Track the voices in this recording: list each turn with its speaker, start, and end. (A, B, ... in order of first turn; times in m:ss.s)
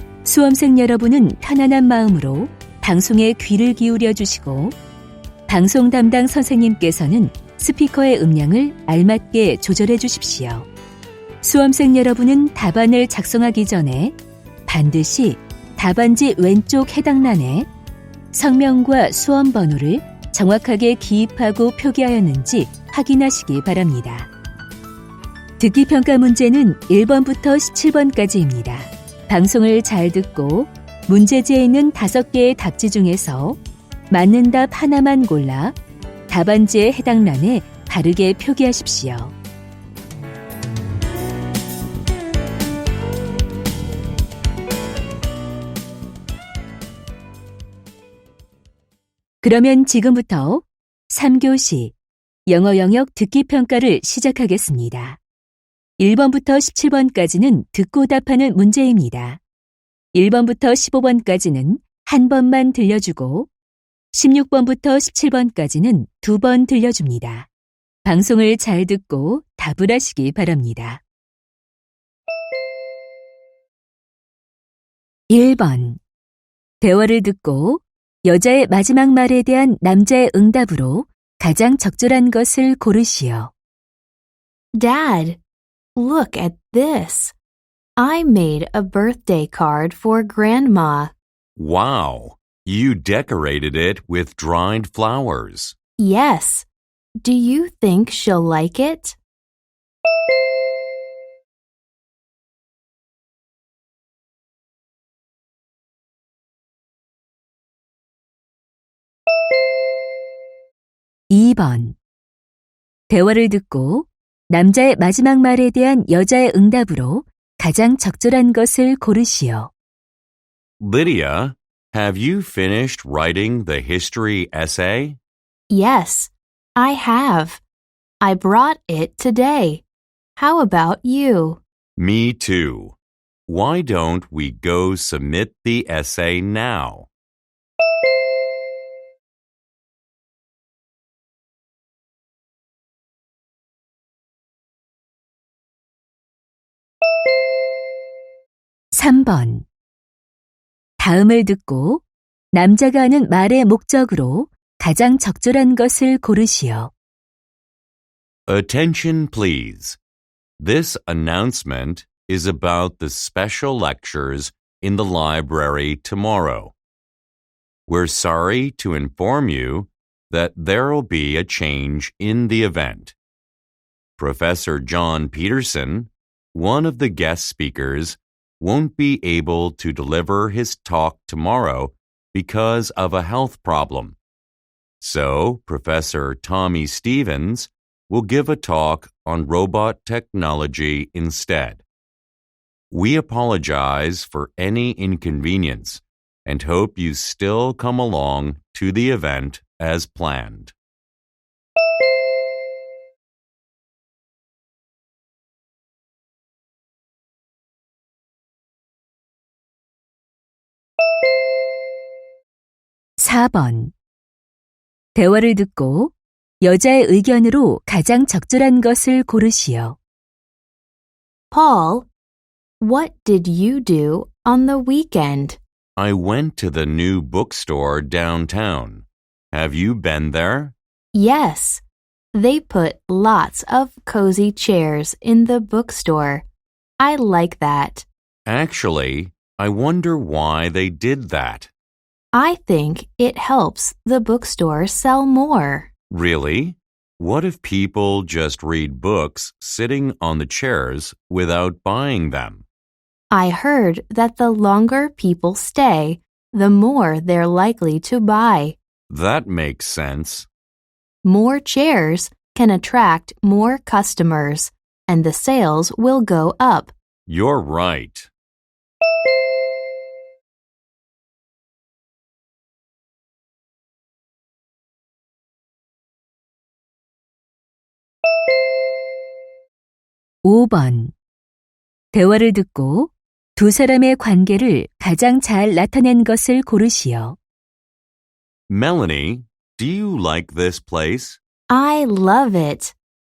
0:00.2-0:04.8 A
0:05.5-0:10.7 A
0:11.4-0:14.2 A
0:14.7-0:17.7 A
0:18.3-0:24.3 A
0:25.6-0:33.6 A
0:34.1-0:35.8 A
0:36.3-0:39.3 A
0:49.4-0:51.9 A
0:52.5-0:55.2 A
0:56.0-0:59.4 A
1:00.1-1:03.5 A
1:04.1-1:07.5 A
1:08.0-1:11.0 A
1:15.3-1:16.0 A
1:16.8-1:23.5 A
1:24.8-1:25.4 B
1:26.0-1:27.3 B
1:28.0-1:31.1 B
1:31.6-1:35.8 C
1:36.0-1:36.6 B
1:37.2-1:39.1 B
1:51.3-1:52.0 A
1:53.1-1:59.7 A
2:00.8-2:05.2 C
2:05.7-2:07.6 B
2:08.2-2:09.8 B
2:10.4-2:11.6 B
2:12.0-2:17.1 C
2:28.9-2:29.6 A
2:31.0-2:36.9 A
2:38.5-2:40.0 C
2:40.6-2:46.8 C
2:47.9-2:53.2 C
2:54.2-3:04.2 C
3:05.0-3:11.8 C
3:12.9-3:20.8 C
3:33.2-3:33.9 A
3:35.2-3:40.0 A
3:41.5-3:42.1 B
3:42.8-3:45.6 B
3:46.0-3:50.8 C
3:51.2-3:51.8 B
3:52.3-3:56.4 B
3:57.0-3:58.0 B
3:58.5-4:01.7 C
4:02.3-4:05.8 B
4:06.1-4:12.6 C
4:13.3-4:18.7 B
4:19.1-4:20.5 C
4:21.2-4:26.9 B
4:27.3-4:28.3 C
4:40.4-4:41.1 A
4:42.1-4:47.4 A
4:48.7-4:51.4 C
4:51.7-4:52.9 B